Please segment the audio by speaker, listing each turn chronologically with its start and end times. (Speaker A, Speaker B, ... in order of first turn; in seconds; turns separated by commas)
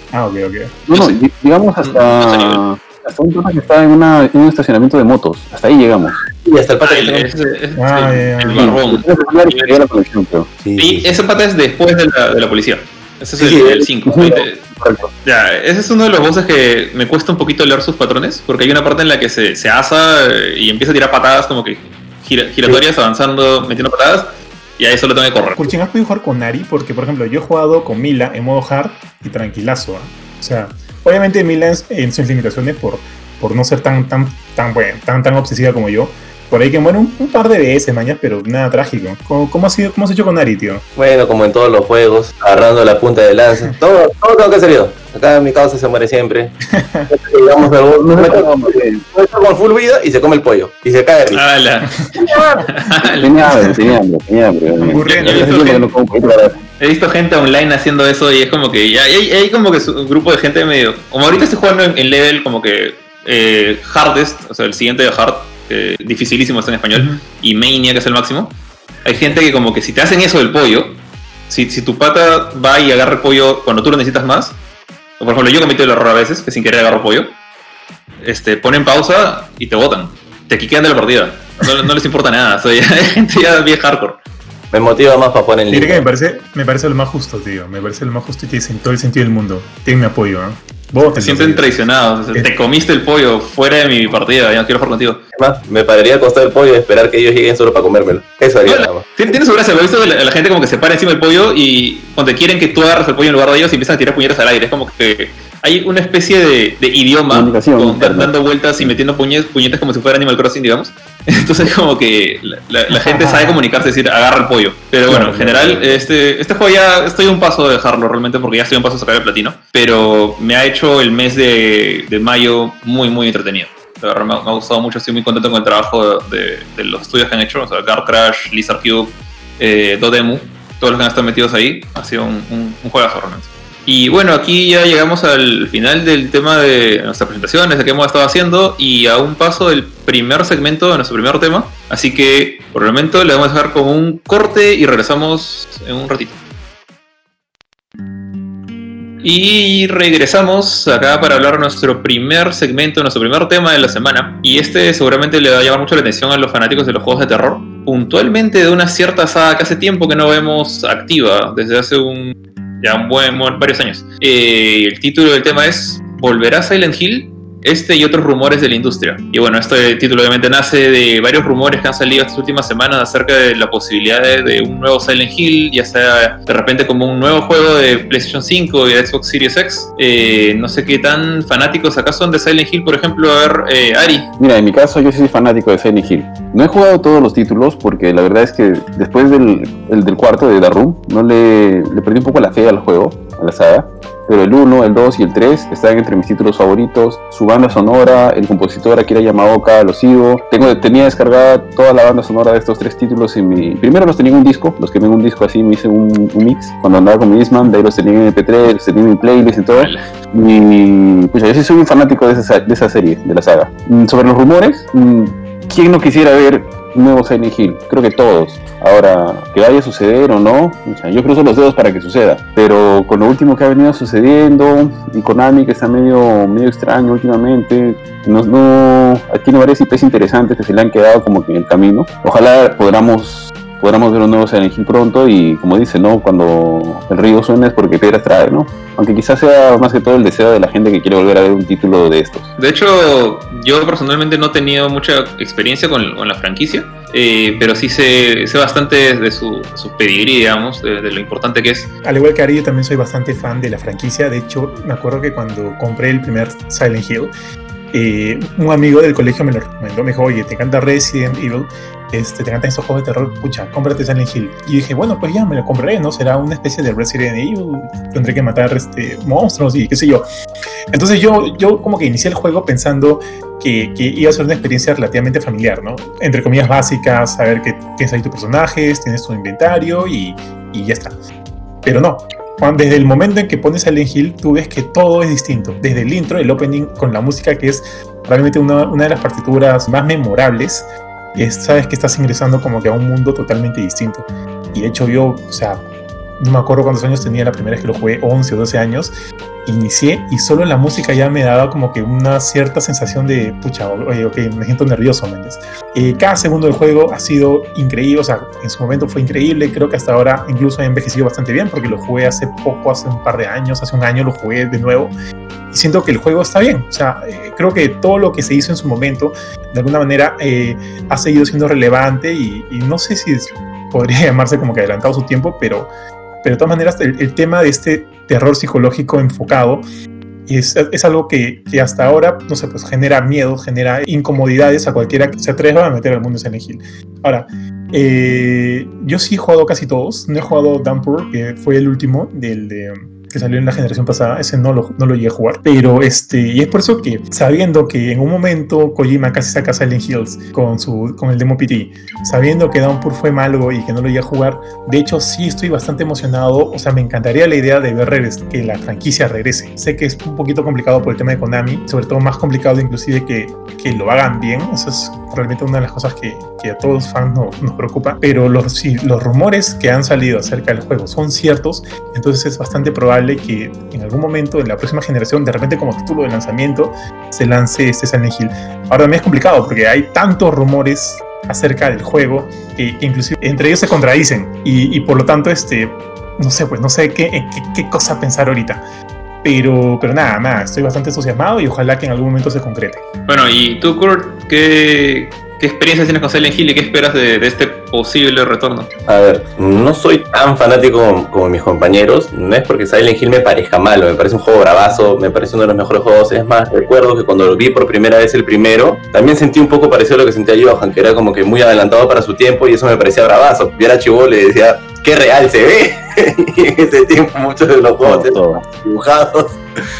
Speaker A: 0.1-0.8, Speaker B: 0.9-6.2, Speaker C: 1.8-2.6, Speaker D: 6.4-7.3, Speaker C: 6.8-9.9, Speaker A: 7.8-8.7, Speaker B: 8.5-10.5, Speaker D: 10.6-11.1, Speaker C: 10.8-14.6, Speaker D: 13.4-14.9, Speaker B: 14.1-14.4, Speaker C: 15.2-25.7, Speaker A: 25.5-40.8, Speaker D: 41.0-46.5, Speaker A: 46.7-47.1, Speaker D: 47.1-51.4, Speaker B: 48.0-49.0, Speaker C: 51.3-53.9, Speaker B: 53.1-56.5, Speaker A: 54.8-55.6, Speaker C: 55.0-55.9, Speaker C: 56.8-74.6, Speaker A: 66.9-67.2, Speaker C: 75.2-77.3, Speaker C: 78.2-84.2, Speaker D: 84.7-86.0, Speaker A: 85.7-91.8, Speaker C: 91.1-95.2, Speaker D: 95.3-99.0, Speaker C: 98.7-146.4, Speaker B: 107.3-108.9, Speaker A: 112.9-113.6, Speaker B: 115.1-115.9, Speaker C: 149.2-184.3, Speaker B: 184.4-242.5, Speaker C: 209.7-210.0, Speaker C: 242.6-251.9, Speaker A: 252.0-257.3, Speaker A: 257.9-270.2, Speaker A: 270.9-281.1, Speaker A: 281.8-295.8, Speaker A: 296.4-299.1, Speaker A: 299.6-315.1, Speaker A: 315.7-325.9, Speaker A: 326.4-329.8, Speaker A: 330.5-388.8, Speaker A: 389.4-393.0, Speaker C: 393.3-398.9, Speaker D: 399.1-419.6, Speaker B: 418.0-418.6